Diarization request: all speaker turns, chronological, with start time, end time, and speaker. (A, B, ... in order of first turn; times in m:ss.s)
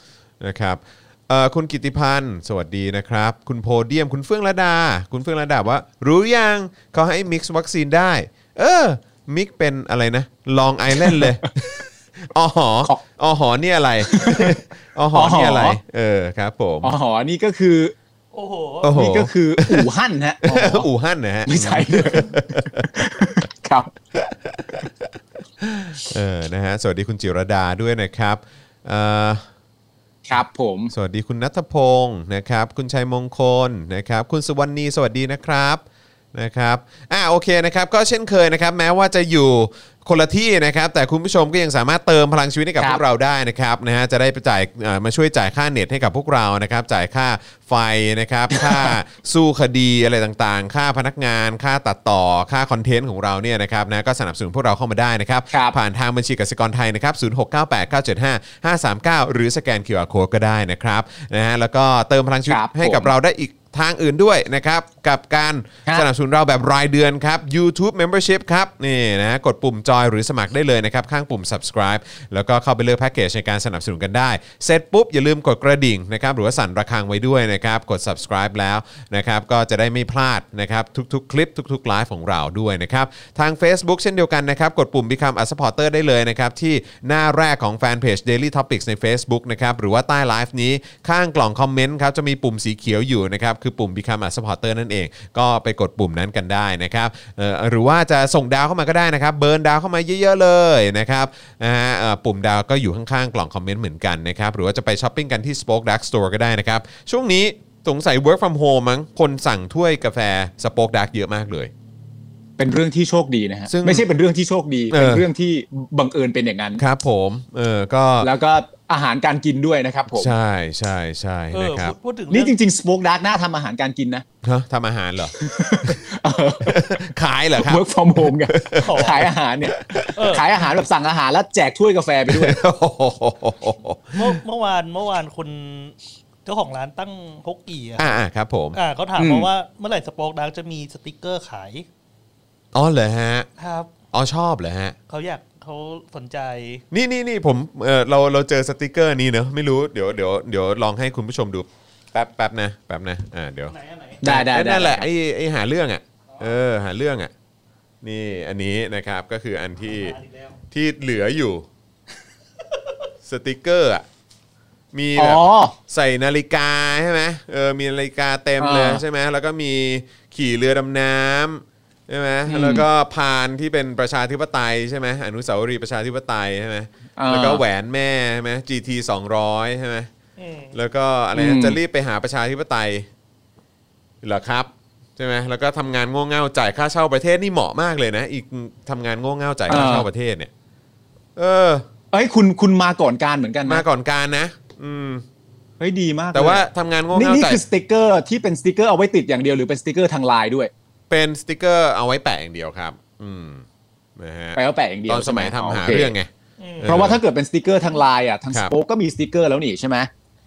0:00.4-0:16.9 A
0:14.1-0:14.5 B
0:15.1-0:15.8 B
0:16.8-0:17.9 B
0:18.3-0:19.0 C
0:18.8-0:19.9 A
0:18.8-0:20.8 B
0:20.4-0:23.3 A
0:21.4-0:23.9 B
0:24.2-0:29.4 A
0:30.3-0:30.9 B
0:30.9-0:35.8 A
0:36.3-1:51.7 A
0:48.5-0:49.0 B
0:55.5-0:55.8 B
1:02.5-1:03.1 B
1:52.6-1:56.8 B
1:53.7-1:54.1 A
1:54.9-1:55.3 A
1:56.8-1:58.3 A
1:58.2-2:00.3 B
2:00.1-2:02.0 A
2:01.5-2:02.5 C
2:02.3-2:04.2 B
2:04.4-2:06.0 A
2:05.4-2:07.0 B
2:06.6-2:10.1 A
2:07.6-2:12.6 B
2:08.8-2:09.3 C
2:10.2-2:10.5 C
2:12.3-2:14.4 A
2:14.1-2:18.0 C
2:18.0-2:18.8 A
2:18.7-2:21.9 C
2:19.2-2:19.5 B
2:22.7-2:23.5 A
2:23.6-2:23.9 C
2:24.1-2:25.0 A
2:25.1-2:26.8 C
2:26.9-2:37.3 A
2:33.7-2:34.2 C
2:34.2-2:35.1 B
2:38.0-2:40.2 A
2:39.9-2:40.6 C
2:40.7-2:41.7 A
2:43.2-2:44.0 A
2:44.9-3:00.1 A
2:45.2-2:45.7 B
2:48.6-2:49.0 B
2:52.5-2:52.8 B
2:57.2-2:57.6 B
3:00.4-3:00.7 C
3:00.7-3:03.1 A
3:01.3-3:01.8 B
3:04.2-3:10.5 A
3:09.7-3:10.0 B
3:11.4-3:11.8 A
3:12.1-3:13.8 B
3:13.6-3:15.2 A
3:15.8-3:20.7 B
3:16.3-3:17.6 A
3:21.1-3:23.6 A
3:24.2-3:27.2 A
3:24.6-3:26.1 B
3:26.6-3:27.0 C
3:26.8-3:30.1 B